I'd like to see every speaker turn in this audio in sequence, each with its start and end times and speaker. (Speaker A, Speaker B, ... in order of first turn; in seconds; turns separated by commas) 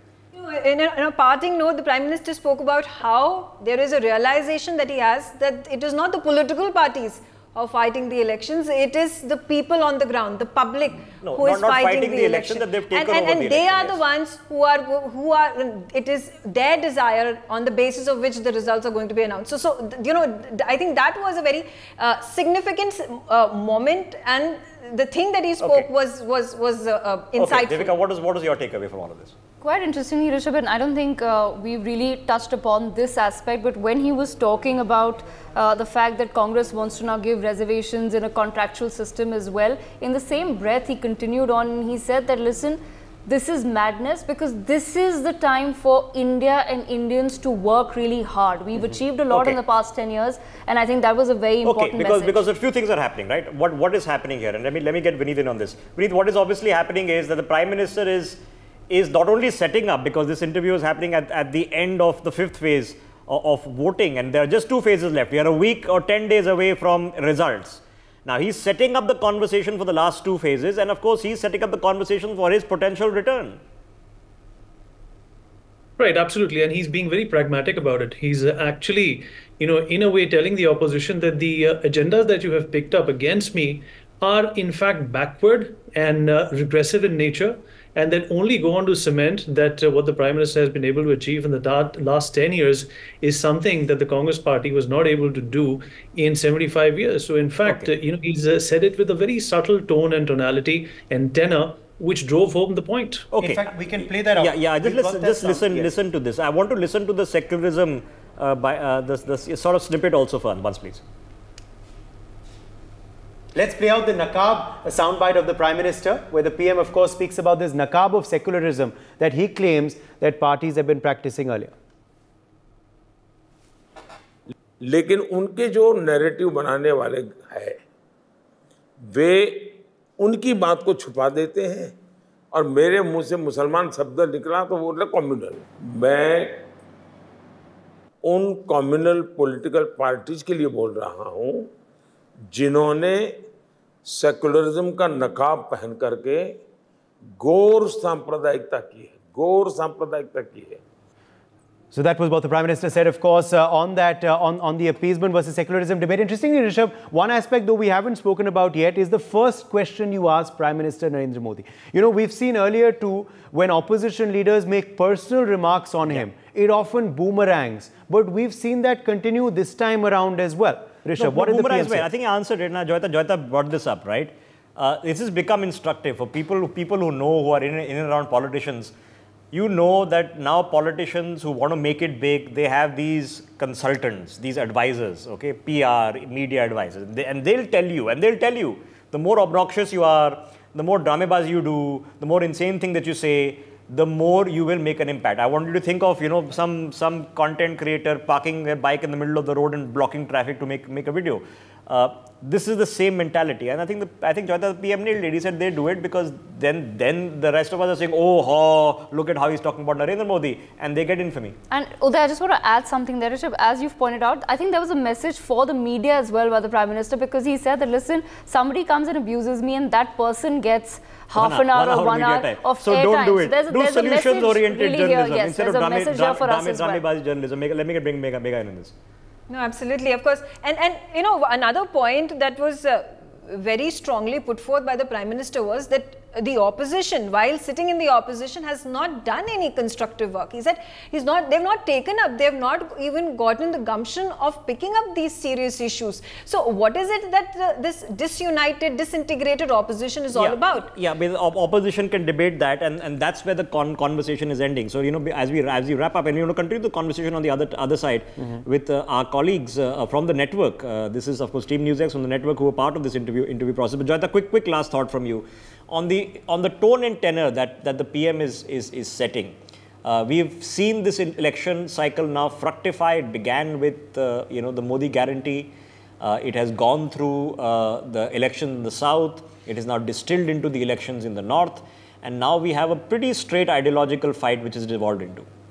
Speaker A: 0.3-27.9, Speaker B: 11.2-14.0, Speaker B: 25.6-25.9, Speaker B: 27.4-29.3, Speaker C: 29.6-52.4, Speaker B: 48.8-49.6, Speaker B: 51.6-73.6, Speaker D: 76.0-103.3, Speaker B: 97.6-97.9, Speaker B: 103.3-111.0, Speaker E: 103.4-105.9, Speaker E: 113.5-121.7, Speaker F: 124.8-127.8, Speaker F: 129.1-131.9, Speaker F: 132.5-136.6, Speaker F: 138.2-141.7, Speaker F: 142.5-143.4, Speaker F: 144.1-146.6, Speaker F: 147.4-150.8, Speaker E: 151.9-172.1, Speaker B: 171.2-178.9, Speaker B: 179.5-211.6, Speaker C: 211.7-227.0, Speaker B: 221.3-228.9, Speaker A: 229.5-250.9, Speaker B: 250.3-285.5